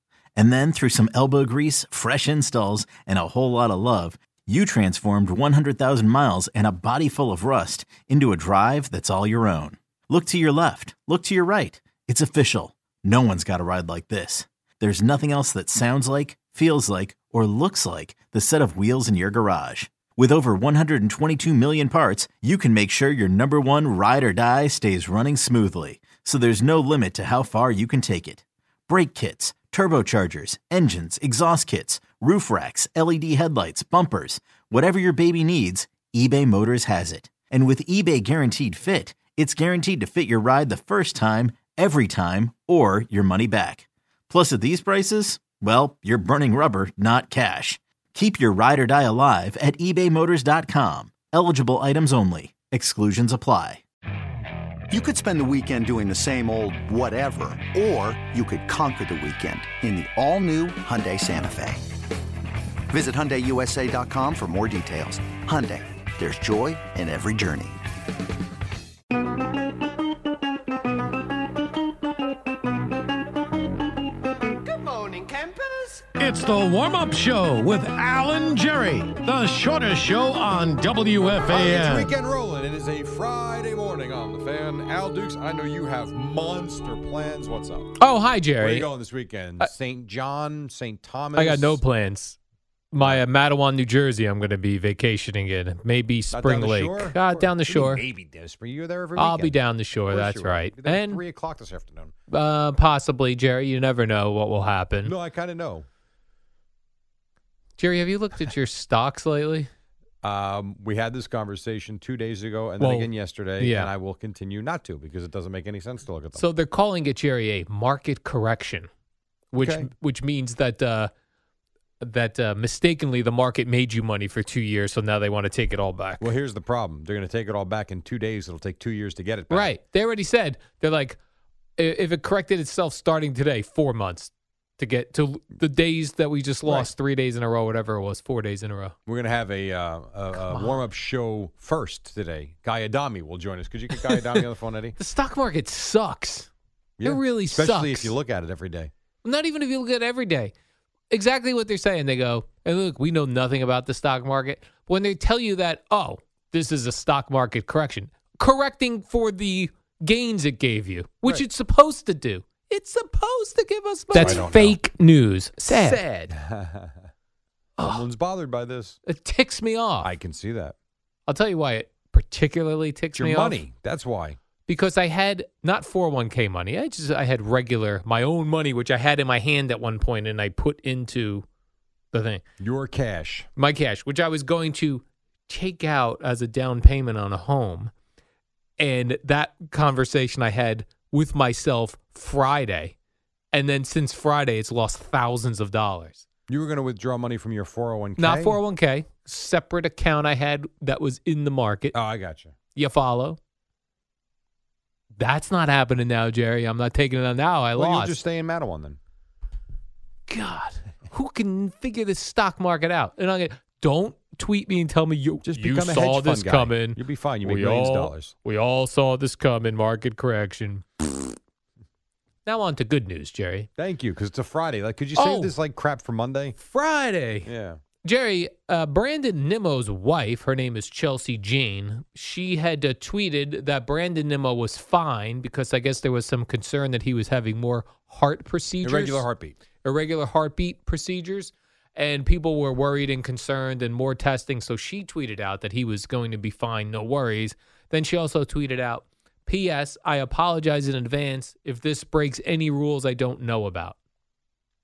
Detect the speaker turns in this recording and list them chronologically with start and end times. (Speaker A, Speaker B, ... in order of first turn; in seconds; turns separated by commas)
Speaker A: 0.3-53.8, Speaker B: 54.9-61.9, Speaker B: 62.9-67.8, Speaker C: 76.0-82.1, Speaker D: 81.5-87.9, Speaker E: 88.0-88.9, Speaker D: 88.6-91.8, Speaker E: 91.3-92.4, Speaker E: 92.9-98.0, Speaker D: 93.0-93.2, Speaker D: 96.3-99.6, Speaker E: 99.2-101.2, Speaker D: 100.1-102.1, Speaker E: 102.3-105.1, Speaker D: 105.0-105.8, Speaker E: 107.8-109.7, Speaker D: 110.2-116.4, Speaker E: 112.8-113.9, Speaker E: 116.3-118.9, Speaker E: 119.5-121.1, Speaker D: 119.6-119.9, Speaker E: 122.0-126.3, Speaker D: 126.2-129.7, Speaker E: 129.5-131.2, Speaker E: 131.8-138.9, Speaker D: 136.6-136.9, Speaker D: 139.1-144.9, Speaker E: 140.3-140.8, Speaker E: 143.9-144.4, Speaker E: 145.0-146.5, Speaker D: 147.0-148.9, Speaker E: 147.0-148.2, Speaker E: 149.2-150.5, Speaker E: 151.1-166.3, Speaker D: 164.1-164.8, Speaker D: 165.7-167.1, Speaker E: 167.8-168.0, Speaker D: 167.8-169.0, Speaker E: 169.1-170.1, Speaker D: 170.0-170.7, Speaker E: 171.3-173.6, Speaker D: 173.2-174.4, Speaker E: 174.7-181.4, Speaker E: 182.1-182.4, Speaker D: 182.6-183.5, Speaker E: 183.6-187.9, Speaker E: 188.8-192.9, Speaker E: 193.5-196.2, Speaker D: 196.5-198.6, Speaker E: 198.2-201.9, Speaker D: 201.9-202.5, Speaker E: 202.7-203.4, Speaker E: 205.2-208.2, Speaker D: 207.7-209.0, Speaker E: 210.3-221.1, Speaker D: 215.4-218.3, Speaker E: 222.4-223.7, Speaker D: 223.8-226.6, Speaker E: 225.1-225.5, Speaker E: 226.6-227.5, Speaker D: 227.4-227.8, Speaker E: 228.0-239.2, Speaker D: 238.8-239.6, Speaker E: 239.8-253.9